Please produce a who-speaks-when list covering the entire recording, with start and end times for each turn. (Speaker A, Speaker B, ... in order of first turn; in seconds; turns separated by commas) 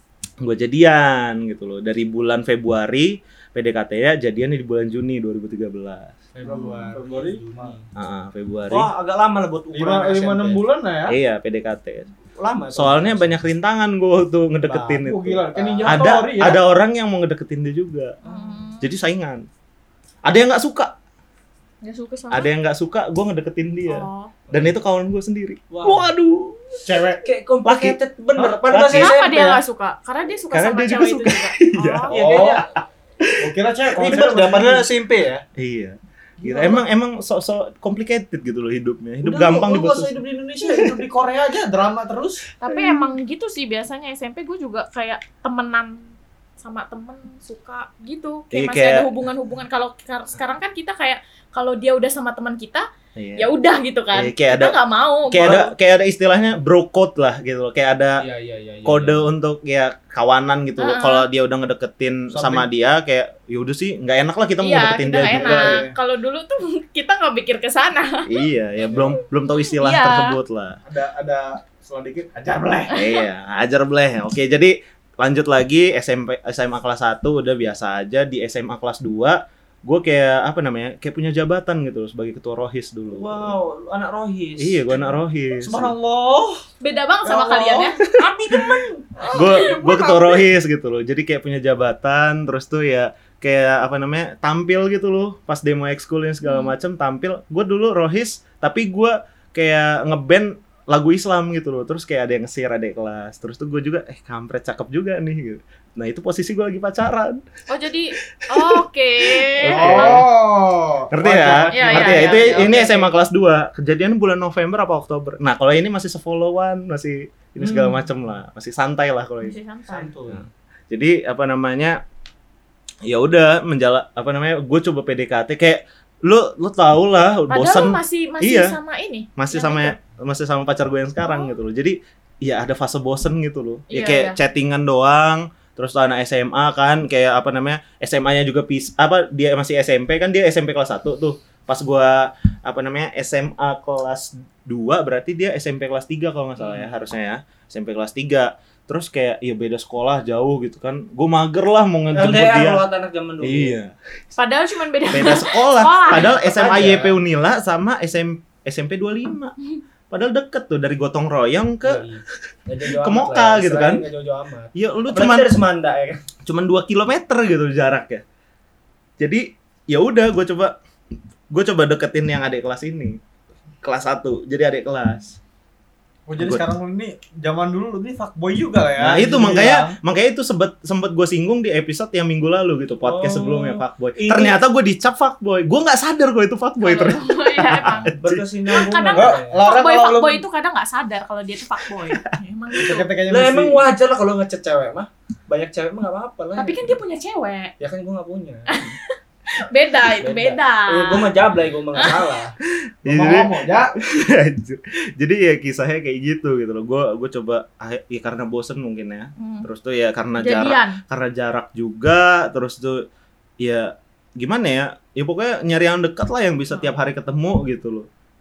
Speaker A: 0.4-6.1, Speaker B: 6.3-7.9, Speaker C: 6.5-6.9, Speaker D: 6.5-7.7, Speaker A: 8.0-8.9, Speaker B: 8.7-10.6, Speaker D: 9.7-11.2, Speaker A: 11.1-12.1, Speaker B: 12.4-13.4, Speaker A: 12.7-18.1, Speaker B: 14.7-15.0, Speaker D: 15.0-16.6, Speaker B: 15.5-16.1, Speaker B: 18.2-18.7, Speaker C: 18.2-18.9, Speaker A: 18.8-19.4, Speaker A: 20.3-20.9, Speaker C: 21.8-22.5, Speaker A: 22.3-26.8, Speaker C: 23.9-24.3, Speaker B: 24.5-24.8, Speaker B: 25.7-26.1, Speaker D: 26.9-27.2, Speaker B: 27.2-29.6, Speaker A: 27.6-28.0, Speaker A: 28.7-29.1, Speaker C: 28.9-32.5, Speaker A: 30.5-33.5, Speaker B: 32.1-32.6, Speaker D: 32.2-32.6, Speaker D: 33.4-34.9, Speaker B: 34.0-35.4, Speaker A: 35.6-40.9, Speaker D: 36.4-36.8, Speaker D: 39.2-42.4, Speaker C: 42.6-46.0, Speaker A: 42.7-43.1, Speaker C: 46.6-52.9, Speaker A: 48.5-49.1, Speaker A: 53.2-53.5, Speaker C: 53.4-55.6, Speaker A: 54.1-54.8, Speaker A: 55.3-58.2, Speaker B: 58.2-59.3, Speaker A: 58.9-65.8, Speaker C: 60.8-61.3, Speaker D: 62.3-62.7, Speaker C: 64.6-68.5, Speaker D: 65.2-66.0, Speaker A: 68.3-70.8, Speaker C: 69.8-70.3, Speaker D: 70.9-72.9, Speaker A: 72.9-83.5, Speaker C: 73.0-73.2, Speaker B: 83.1-85.0, Speaker A: 84.6-85.9, Speaker D: 85.6-86.7, Speaker C: 86.8-88.0, Speaker D: 87.2-90.4, Speaker B: 88.6-88.8, Speaker A: 89.3-107.4, Speaker C: 89.3-89.6, Speaker C: 96.4-96.8, Speaker C: 107.7-110.2, Speaker A: 108.5-108.8, Speaker A: 109.3-110.2, Speaker D: 109.7-112.9, Speaker A: 111.1-119.5, Speaker C: 111.7-113.1, Speaker C: 117.6-118.0, Speaker C: 119.4-120.1, Speaker B: 119.9-120.5, Speaker A: 120.3-122.0, Speaker A: 123.1-128.7, Speaker C: 127.5-130.0, Speaker A: 129.4-152.9, Speaker C: 131.2-131.5, Speaker C: 133.9-134.4, Speaker B: 146.6-146.9, Speaker B: 152.1-153.8, Speaker A: 153.4-153.9, Speaker C: 154.4-156.5, Speaker A: 155.1-159.5, Speaker B: 156.1-157.2, Speaker A: 160.1-162.1, Speaker B: 161.8-166.2, Speaker A: 162.9-164.1, Speaker A: 164.7-165.6, Speaker A: 166.5-168.2, Speaker A: 169.2-170.8, Speaker A: 171.5-173.2, Speaker A: 173.8-175.4, Speaker D: 176.3-180.0, Speaker A: 176.4-176.7, Speaker A: 179.0-188.5, Speaker B: 183.0-184.6, Speaker C: 186.8-188.2, Speaker B: 188.2-189.6, Speaker C: 188.7-193.1, Speaker D: 189.1-190.4, Speaker D: 192.8-193.8, Speaker B: 193.3-197.0, Speaker C: 196.6-197.7, Speaker B: 197.8-198.7, Speaker C: 198.7-201.4, Speaker B: 200.2-202.6, Speaker C: 201.9-202.4, Speaker A: 203.0-213.1, Speaker D: 203.1-203.9, Speaker C: 209.4-209.7, Speaker C: 210.4-211.0, Speaker A: 213.6-218.1, Speaker C: 216.7-217.0